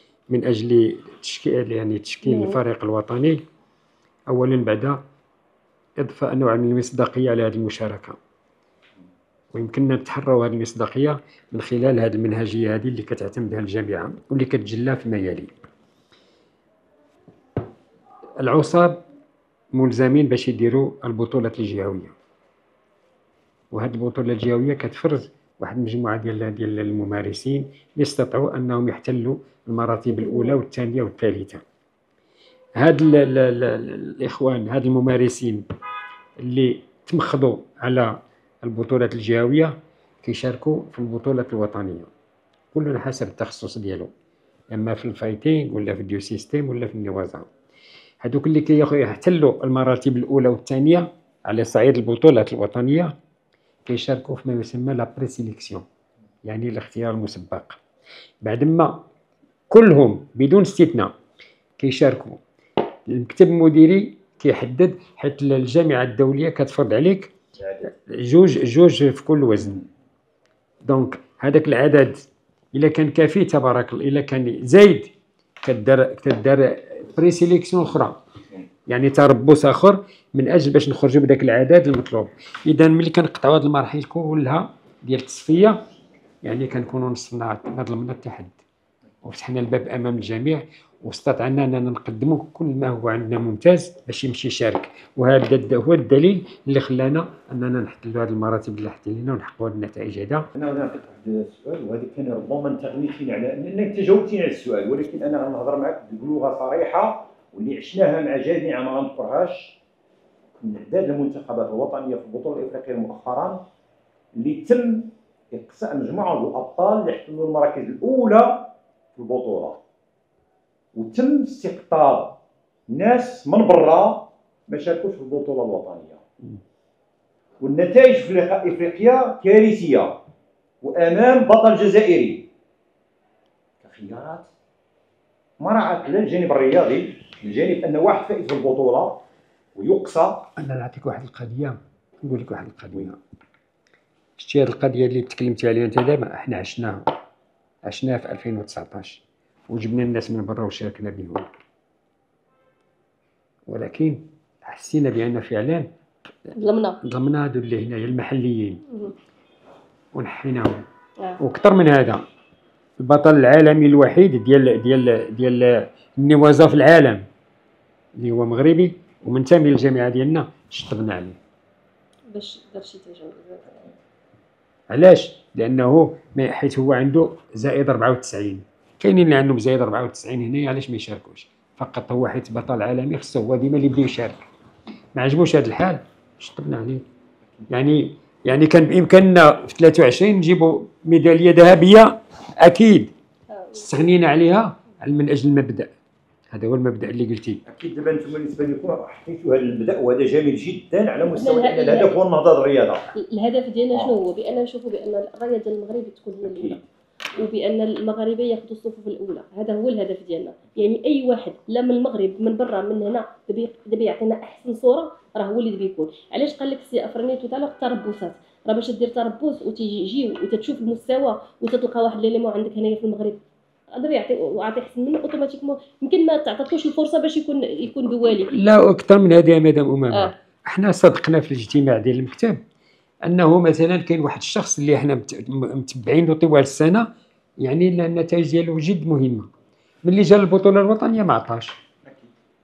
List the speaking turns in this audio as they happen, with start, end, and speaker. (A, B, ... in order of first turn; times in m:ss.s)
0:00.3-0:03.4 A
0:02.2-0:02.6 B
0:04.3-0:05.0 A
0:06.0-0:08.2 A
0:09.5-0:15.5 A
0:18.4-0:19.0 A
0:19.7-0:22.1 A
0:23.7-0:31.6 A
0:30.1-0:30.6 B
0:32.8-0:35.6 A
0:36.4-0:42.1 A
0:42.7-0:44.1 A
0:44.7-0:47.5 A
0:48.2-0:53.1 A
0:53.9-0:55.8 A
0:56.4-0:57.8 A
0:58.4-0:59.0 A
0:59.7-1:01.1 A
1:01.8-1:02.4 A
1:03.1-1:07.3 A
1:07.6-1:07.9 C
1:08.0-1:09.8 A
1:09.6-1:09.9 C
1:10.8-1:15.1 A
1:15.6-1:18.2 A
1:18.9-1:25.8 A
1:26.4-1:28.6 A
1:29.2-1:40.5 A
1:40.5-1:49.8 C
1:50.6-1:53.6 C
1:54.4-1:59.8 C
2:01.0-2:02.4 C
2:02.9-2:06.2 C
2:07.6-2:10.2 C
2:10.8-2:12.5 C
2:13.8-2:14.5 C
2:15.6-2:19.2 C
2:19.8-2:20.5 C
2:20.6-2:23.2 A
2:24.4-2:27.1 A
2:27.8-2:31.4 A
2:33.7-2:35.9 A
2:36.6-2:37.0 B
2:37.0-2:38.8 A
2:40.1-2:40.9 A
2:41.4-2:42.2 A
2:43.0-2:47.2 A
2:48.2-2:51.4 A
2:52.3-2:53.9 B
2:54.9-3:04.4 A
3:05.2-3:07.0 A
3:07.7-3:13.1 A
3:13.5-3:13.9 B
3:13.7-3:15.9 A
3:16.5-3:17.6 A
3:17.7-3:23.1 C
3:21.3-3:22.2 B
3:23.2-3:26.8 B
3:26.4-3:26.8 C
3:27.4-3:43.4 B
3:43.9-3:48.5 B
3:48.5-3:52.6 A
3:53.2-3:57.1 A
3:57.6-3:59.5 A
4:00.0-4:01.8 A
4:02.0-4:02.3 C